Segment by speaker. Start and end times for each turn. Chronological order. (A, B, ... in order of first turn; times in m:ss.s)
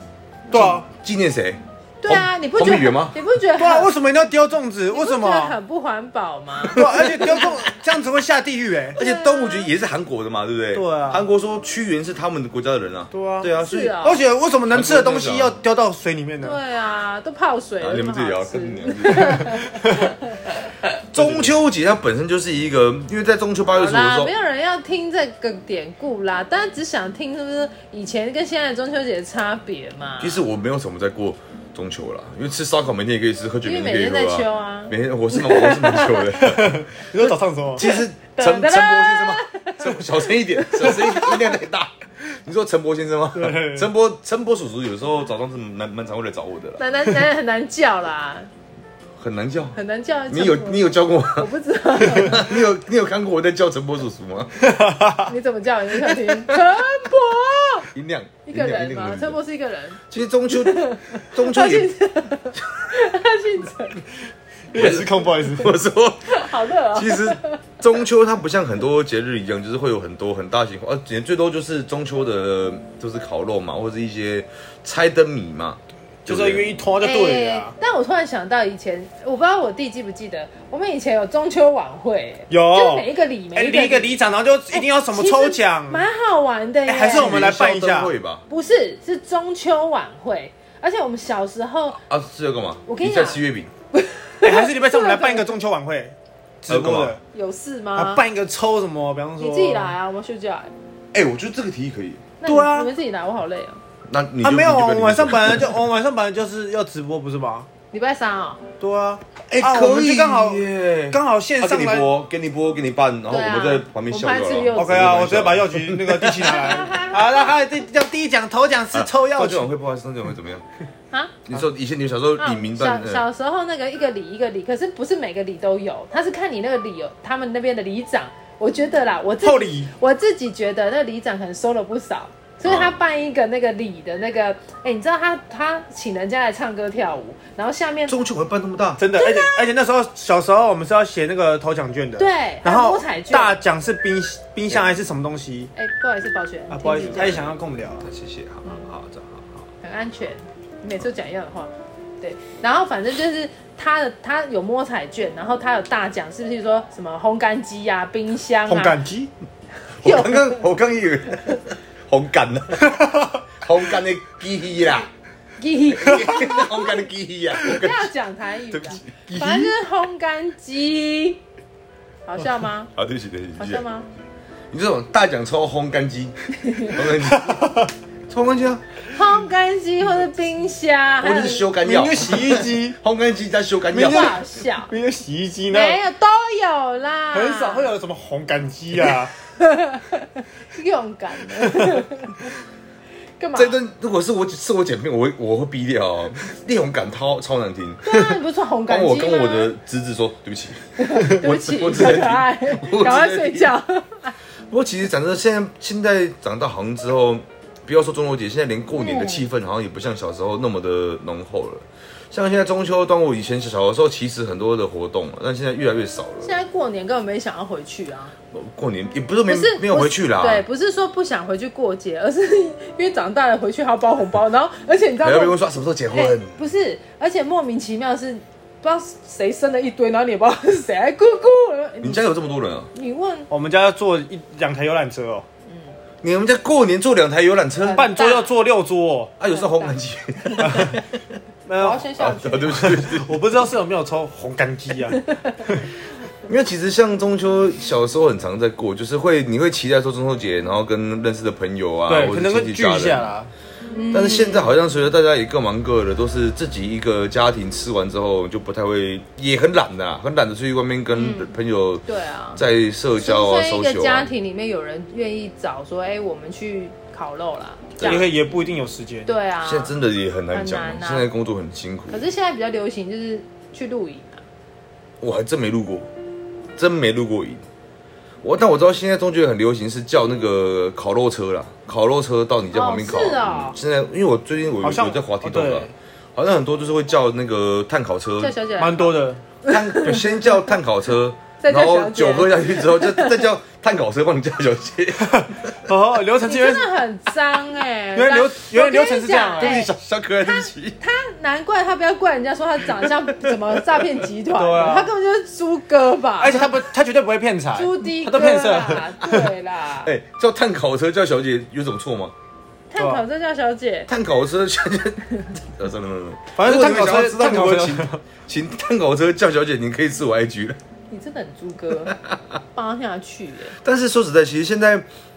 0:00.5-0:00.9 A
0:00.5-0:03.2 B
0:02.0-0:03.9 C
0:03.6-0:05.6 A
0:04.9-0:07.4 C
0:06.7-0:09.0 A
0:06.9-0:07.3 B
0:08.9-0:09.7 C
0:09.0-0:14.0 B
0:10.7-0:11.2 A
0:13.1-0:16.6 A
0:13.6-0:14.2 C
0:14.7-0:15.6 B
0:16.4-0:20.6 C
0:17.8-0:19.6 B
0:19.8-0:20.1 A
0:21.1-0:24.3 B
0:21.1-0:21.6 A
0:23.7-0:30.4 C
0:30.2-0:37.0 B
0:33.6-0:36.3 C
0:36.4-0:37.8 A
0:37.8-0:41.6 C
0:37.8-0:46.8 B
0:43.3-0:43.9 A
0:46.8-0:48.5 C
0:49.2-0:49.8 B
0:49.7-0:52.6 C
0:50.3-0:54.6 B
0:54.6-0:55.3 A
0:55.2-0:57.9 C
0:57.9-0:59.4 B
0:58.5-1:04.0 C
1:00.1-1:01.9 B
1:04.7-1:05.7 A
1:04.7-1:16.7 B
1:06.3-1:07.6 C
1:16.2-1:17.7 A
1:17.0-1:24.2 C
1:22.5-1:26.1 A
1:24.7-1:27.3 C
1:26.9-1:28.1 A
1:27.1-1:28.4 B
1:28.5-1:32.0 C
1:31.9-1:33.7 B
1:32.8-1:33.4 C
1:33.9-1:35.5 C
1:34.4-1:37.2 A
1:36.7-1:37.1 B
1:37.3-1:38.2 C
1:38.0-1:39.9 A
1:39.4-1:40.7 C
1:41.1-1:42.2 B
1:42.4-1:43.8 C
1:42.4-1:42.9 A
1:44.1-1:45.7 B
1:44.4-1:47.7 A
1:47.9-1:48.6 C
1:48.8-1:52.1 A
1:49.5-1:56.7 B
1:53.3-1:55.0 C
1:54.7-1:59.7 A
1:56.4-1:57.7 C
1:58.9-2:00.6 B
2:01.1-2:01.4 C
2:01.5-2:03.2 B
2:02.4-2:18.2 C
2:09.4-2:09.9 A
2:12.6-2:12.9 B
2:18.1-2:19.0 B
2:19.0-2:25.7 A
2:19.2-2:19.7 C
2:22.2-2:23.6 C
2:25.7-2:27.4 C
2:26.7-2:28.1 A
2:27.0-2:29.7 B
2:29.8-2:39.0 C
2:38.7-2:39.3 A
2:40.0-2:45.1 B
2:40.0-2:40.6 C
2:45.6-2:47.0 C
2:46.0-2:48.1 B
2:47.6-2:51.4 C
2:48.7-2:49.7 B
2:52.2-2:52.9 C
2:52.9-2:53.8 B
2:53.6-2:54.1 C
2:54.7-2:58.8 B
2:56.6-2:57.0 C
2:57.3-2:57.9 A
2:59.1-3:01.8 C
3:01.2-3:04.3 B
3:01.8-3:03.0 A
3:03.9-3:04.9 C
3:03.9-3:06.0 A
3:05.7-3:07.9 C
3:07.3-3:09.3 A
3:09.6-3:12.5 C
3:13.4-3:13.8 C
3:13.5-3:18.4 B
3:18.0-3:19.7 C
3:18.9-3:23.7 B
3:21.0-3:24.3 C
3:24.7-3:36.5 B
3:28.9-3:29.4 C
3:36.4-3:38.3 C
3:38.5-3:40.6 B
3:39.5-3:45.6 C
3:45.2-3:46.6 B
3:46.1-3:53.5 C
3:52.0-3:52.9 B
3:53.5-3:55.4 A
3:55.7-3:56.0 C
3:56.2-3:58.3 B
3:57.8-3:58.5 C
3:57.9-3:59.3 A
3:59.4-4:01.0 B
3:59.5-4:01.0 C
4:01.6-4:02.1 A
4:01.8-4:03.0 C
4:02.2-4:03.3 B
4:02.7-4:05.8 A
4:05.1-4:05.8 C
4:06.5-4:13.2 B
4:12.1-4:13.5 A
4:13.9-4:14.7 C
4:14.1-4:22.0 B
4:21.1-4:21.5 C
4:22.1-4:22.6 C
4:22.5-4:24.3 B
4:23.2-4:28.2 C
4:28.0-4:28.2 B
4:28.0-4:29.3 A
4:29.2-4:29.9 C
4:29.6-4:32.2 B
4:30.5-4:31.3 C
4:32.1-4:34.4 C
4:35.2-4:36.1 B
4:36.8-4:37.6 B
4:38.4-4:48.6 B
4:42.7-4:43.8 C
4:44.8-4:45.9 A
4:48.4-4:50.4 C
4:48.8-4:49.4 A
4:49.6-4:55.8 B
4:51.6-4:53.4 C
4:55.3-4:56.9 A
4:56.4-4:59.9 C
4:58.1-4:59.9 A
4:59.6-5:01.0 B
5:00.4-5:06.8 C
5:04.6-5:05.1 A
5:06.4-5:09.4 A
5:07.7-5:10.1 C
5:10.0-5:12.3 B
5:12.9-5:14.1 C
5:13.0-5:13.2 A
5:14.1-5:20.8 B
5:16.6-5:18.2 A
5:21.1-5:22.1 C
5:22.1-5:22.4 B
5:22.7-5:23.8 C
5:23.8-5:25.0 B